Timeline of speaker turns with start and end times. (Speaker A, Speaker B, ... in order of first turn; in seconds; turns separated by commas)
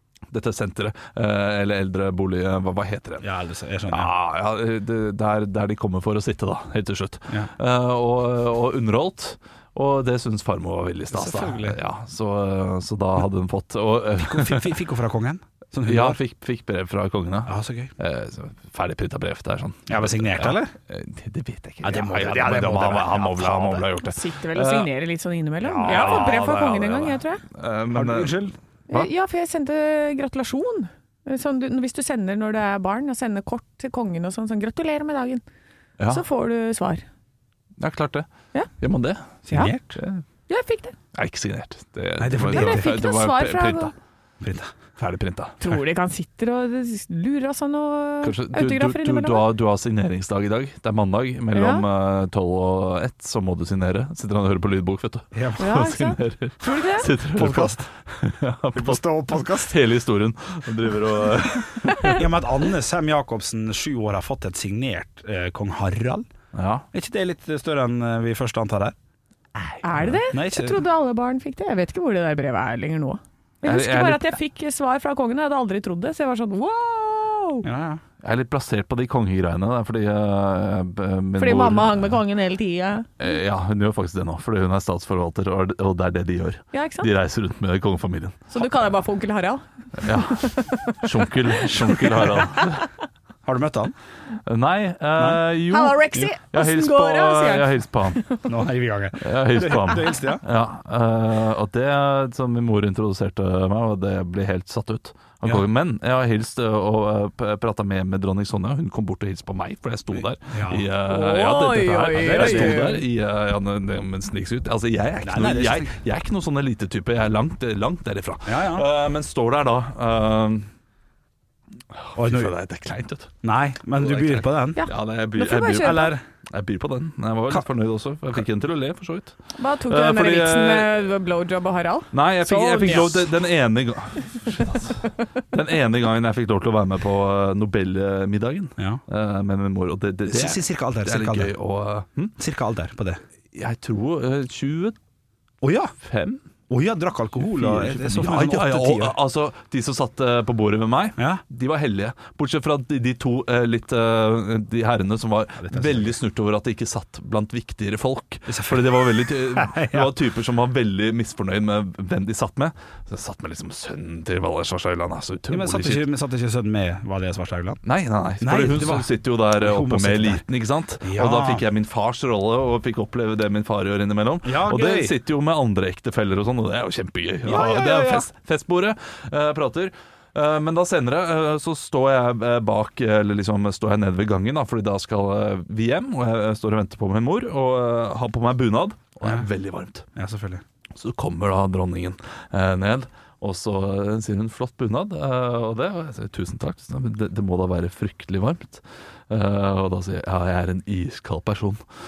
Speaker A: 0.3-3.3, Speaker B: 3.2-4.1, Speaker A: 3.9-14.7, Speaker B: 11.1-11.8, Speaker B: 14.2-16.2, Speaker A: 15.8-24.9, Speaker B: 17.5-17.9, Speaker B: 19.9-20.7, Speaker B: 21.8-23.9, Speaker C: 24.0-27.4, Speaker B: 25.6-26.4, Speaker A: 25.9-29.1, Speaker B: 27.9-28.6, Speaker C: 28.9-35.4, Speaker C: 36.1-37.0, Speaker A: 37.8-38.3, Speaker A: 38.8-39.4, Speaker B: 39.5-40.0, Speaker A: 40.0-40.2, Speaker C: 40.5-41.0, Speaker A: 41.1-43.9, Speaker B: 42.2-42.9, Speaker C: 42.5-43.9, Speaker B: 44.4-44.7, Speaker A: 45.0-45.7, Speaker C: 45.6-49.4, Speaker A: 48.2-62.3, Speaker C: 51.5-51.9, Speaker B: 55.3-55.7, Speaker C: 55.6-57.1, Speaker B: 57.2-57.9, Speaker B: 58.7-59.8, Speaker B: 62.0-66.3, Speaker A: 66.5-66.8, Speaker B: 66.9-69.0, Speaker A: 69.6-70.2, Speaker C: 69.8-77.7, Speaker B: 70.3-70.8, Speaker A: 73.6-74.4, Speaker B: 77.6-78.0, Speaker A: 78.2-82.2, Speaker C: 81.4-83.1, Speaker A: 83.2-88.6, Speaker C: 86.7-87.1, Speaker C: 88.5-91.0, Speaker A: 90.0-92.9, Speaker C: 92.2-92.7, Speaker B: 93.5-93.9, Speaker A: 94.5-98.2, Speaker B: 95.2-95.4, Speaker C: 95.7-98.4, Speaker B: 98.5-100.4, Speaker A: 99.2-120.7, Speaker B: 110.1-110.9, Speaker C: 111.1-113.0, Speaker B: 112.1-113.0, Speaker B: 115.2-116.0, Speaker B: 118.5-118.9, Speaker A: 122.0-123.3, Speaker B: 122.2-122.5, Speaker B: 123.4-124.8, Speaker A: 124.0-130.9, Speaker C: 124.8-126.1, Speaker B: 125.8-126.2, Speaker C: 129.6-133.2, Speaker A: 132.1-142.3, Speaker B: 132.8-133.2, Speaker B: 140.3-141.5, Speaker B: 142.4-143.2, Speaker A: 143.5-145.0, Speaker B: 145.6-145.9, Speaker A: 146.0-146.4, Speaker B: 146.7-149.2, Speaker A: 147.6-166.1, Speaker B: 151.2-151.4, Speaker B: 155.6-156.2, Speaker B: 158.5-160.1, Speaker B: 165.5-167.8, Speaker A: 167.8-190.1, Speaker B: 168.4-170.4, Speaker B: 171.0-171.7, Speaker B: 174.4-175.2, Speaker B: 177.4-178.3, Speaker B: 190.2-190.6, Speaker A: 190.9-201.8